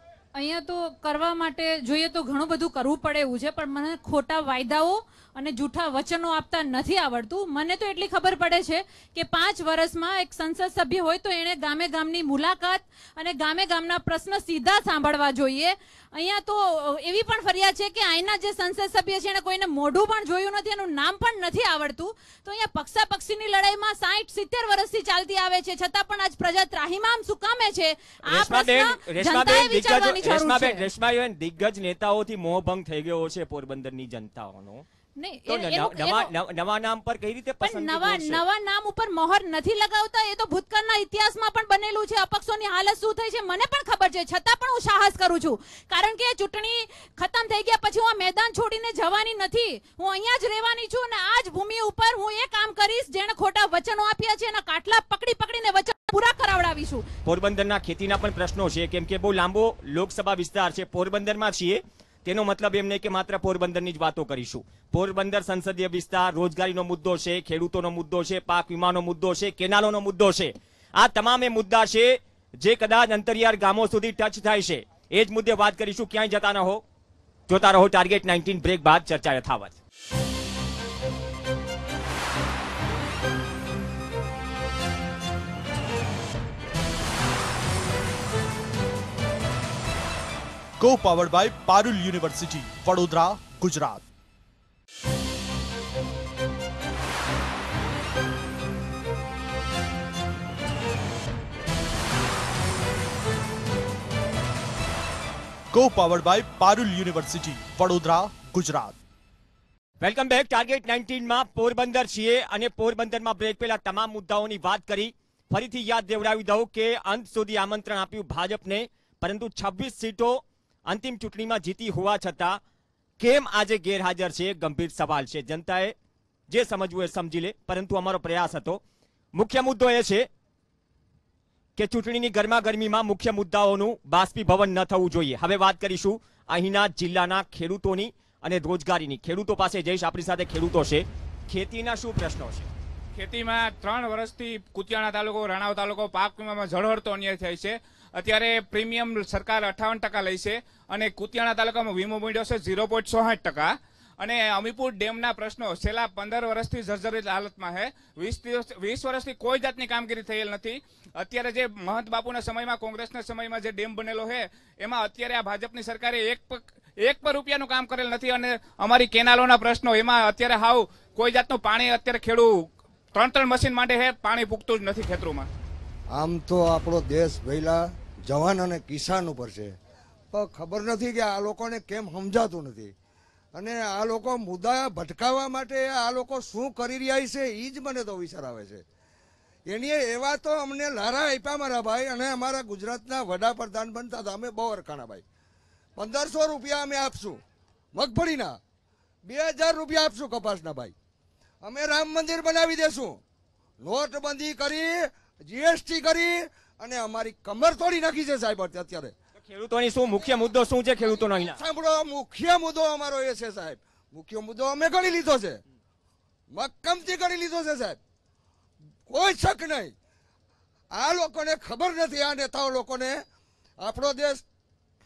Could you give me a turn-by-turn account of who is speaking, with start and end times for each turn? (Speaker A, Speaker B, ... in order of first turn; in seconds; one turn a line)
Speaker A: 0.3-30.9
Speaker B: 28.3-34.9
Speaker A: 35.2-36.3
Speaker B: 35.5-38.4
Speaker A: 37.6-57.1
Speaker B: 57.2-76.8
Speaker B: 77.5-79.8
Speaker C: 90.8-94.0
Speaker C: 105.7-109.0
Speaker B: 110.0-122.6
Speaker B: 123.2-126.0
Speaker B: 126.5-128.8
Speaker B: 129.3-130.3
Speaker B: 131.8-142.7
Speaker D: 143.2-172.5
Speaker D: 173.1-175.5
Speaker E: 176.1-179.8
Speaker E: 180.3-182.9
Speaker E: 183.6-188.8
Speaker E: 189.7-195.2
Speaker E: 196.0-197.4
Speaker E: 197.9-198.6
Speaker E: 199.2-200.9
Speaker E: 201.6-203.2
Speaker E: 203.8-209.1
Speaker B: 209.4-211.6
Speaker E: 211.1-215.6
Speaker E: 216.5-218.0
Speaker E: 219.1-219.9
Speaker E: 220.9-223.2
Speaker E: 223.8-224.4